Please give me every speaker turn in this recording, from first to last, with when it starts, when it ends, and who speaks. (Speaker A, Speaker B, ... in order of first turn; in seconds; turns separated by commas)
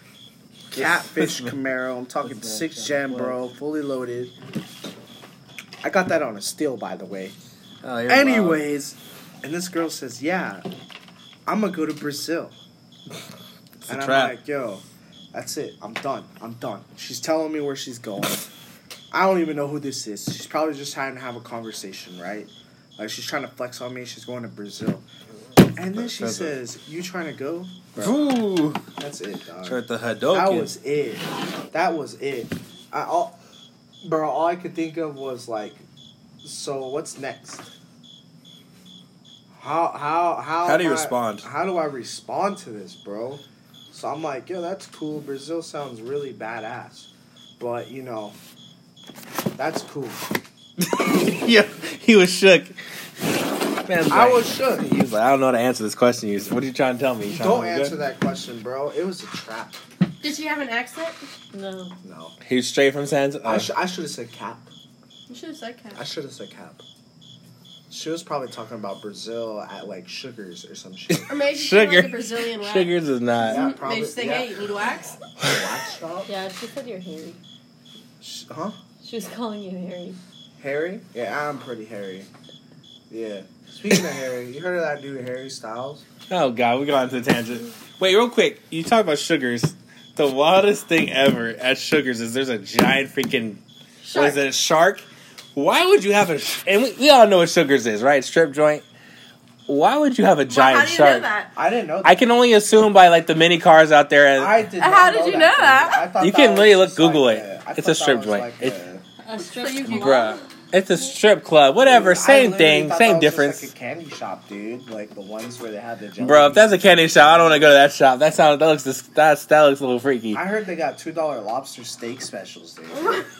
Speaker A: 0.7-4.3, Speaker B: 0.7-1.5, Speaker B: 2.2-3.4, Speaker A: 5.8-7.3, Speaker B: 7.8-8.6, Speaker A: 8.1-10.6, Speaker A: 11.5-12.6, Speaker B: 13.8-14.3, Speaker A: 13.9-18.5, Speaker A: 19.1-25.0, Speaker A: 25.8-28.3, Speaker B: 25.9-26.6, Speaker B: 28.0-28.8, Speaker A: 29.0-33.4, Speaker B: 29.6-30.7, Speaker A: 34.0-35.8, Speaker A: 36.4-37.7, Speaker A: 39.5-48.4, Speaker B: 40.6-41.5, Speaker A: 49.6-50.2, Speaker B: 50.8-52.8, Speaker B: 53.8-58.0, Speaker A: 54.1-54.9, Speaker A: 57.3-59.8, Speaker C: 60.2-61.2, Speaker D: 61.5-61.9, Speaker A: 62.0-62.3, Speaker B: 62.4-63.7, Speaker A: 63.4-64.7, Speaker C: 65.3-66.0, Speaker A: 66.0-66.8, Speaker A: 67.9-71.4, Speaker B: 71.1-73.6, Speaker C: 71.3-75.2, Speaker A: 73.4-74.6, Speaker A: 75.4-76.3, Speaker D: 76.3-77.4, Speaker A: 78.2-78.8, Speaker D: 79.0-80.2, Speaker A: 80.6-82.3, Speaker A: 83.1-86.0, Speaker B: 86.3-93.6, Speaker C: 94.0-94.4, Speaker B: 94.1-98.8, Speaker B: 99.7-101.3, Speaker C: 100.5-101.5, Speaker A: 101.5-102.2, Speaker B: 102.0-104.7, Speaker A: 104.3-109.0, Speaker C: 104.8-106.1, Speaker B: 106.2-108.8, Speaker D: 109.2-110.4, Speaker C: 109.4-110.4, Speaker B: 109.8-113.7, Speaker A: 111.8-117.7, Speaker B: 116.2-120.4, Speaker A: 120.3-123.2, Speaker C: 122.9-123.2